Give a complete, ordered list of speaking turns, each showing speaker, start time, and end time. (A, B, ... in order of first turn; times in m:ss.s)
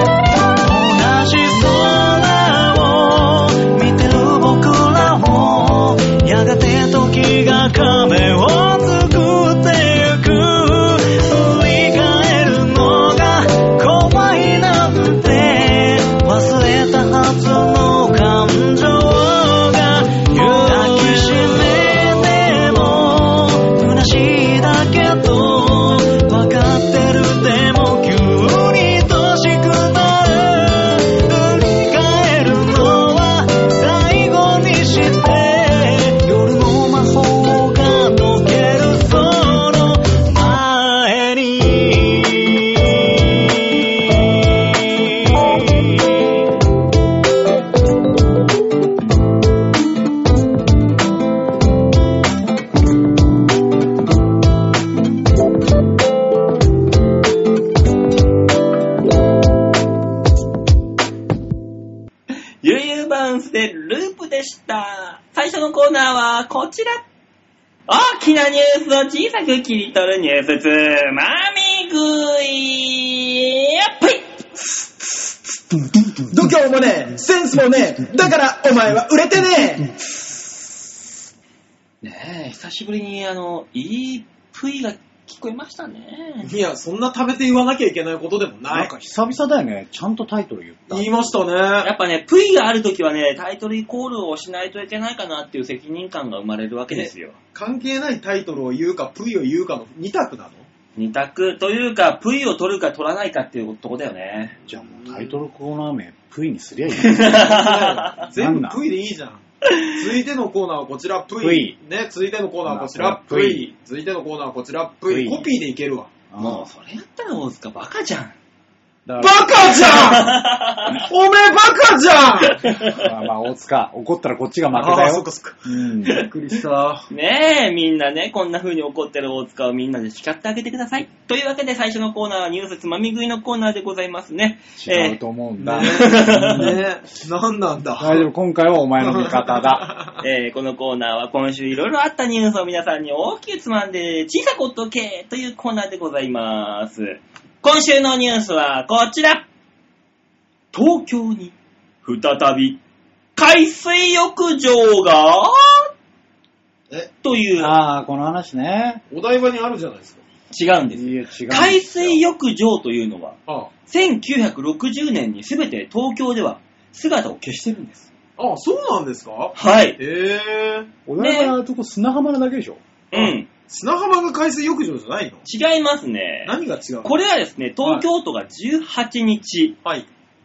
0:00.6-0:46.1 A
1:02.6-1:07.0 B
1:07.9-1:14.4 B
1:16.3-1:19.9 C
1:22.0-1:26.5 B
1:26.4-1:28.9 C
1:28.7-1:31.3 D
1:30.9-1:31.9 C
1:31.8-1:37.4 B
1:36.9-1:40.6 C
1:41.0-1:44.5 B
1:44.7-1:47.4 D
1:44.9-1:45.4 C
1:47.0-1:48.2 B
1:47.2-1:56.1 C
1:48.3-1:48.8 D
1:49.6-1:49.9 B
1:51.4-1:51.7 D
1:52.6-1:53.6 D
1:55.1-1:55.5 D
1:56.3-1:56.7 D
1:56.4-1:58.3 B
1:59.0-1:59.6 D
1:59.2-2:00.4 C
1:59.9-2:01.0 B
2:01.0-2:02.7 C
2:02.6-2:03.0 B
2:02.8-2:06.2 D
2:04.7-2:07.1 C
2:07.1-2:15.2 B
2:14.8-2:16.8 D
2:15.6-2:18.3 C
2:15.7-2:16.7 B
2:18.0-2:19.9 D
2:19.0-2:20.2 C
2:20.2-2:29.4 B
2:30.7-2:32.8 B
2:33.4-2:35.9 B
2:37.2-2:37.8 B
2:37.6-2:39.0 D
2:39.1-2:40.2 C
2:40.5-2:43.4 B
2:40.9-2:42.2 D
2:43.9-2:48.0 B
2:48.4-2:50.9 C
2:49.5-2:50.0 B
2:51.1-2:52.8 D
2:51.2-2:51.5 B
2:53.1-2:53.5 B
2:53.1-2:55.4 C
2:55.4-2:59.8 B
2:56.4-2:57.1 C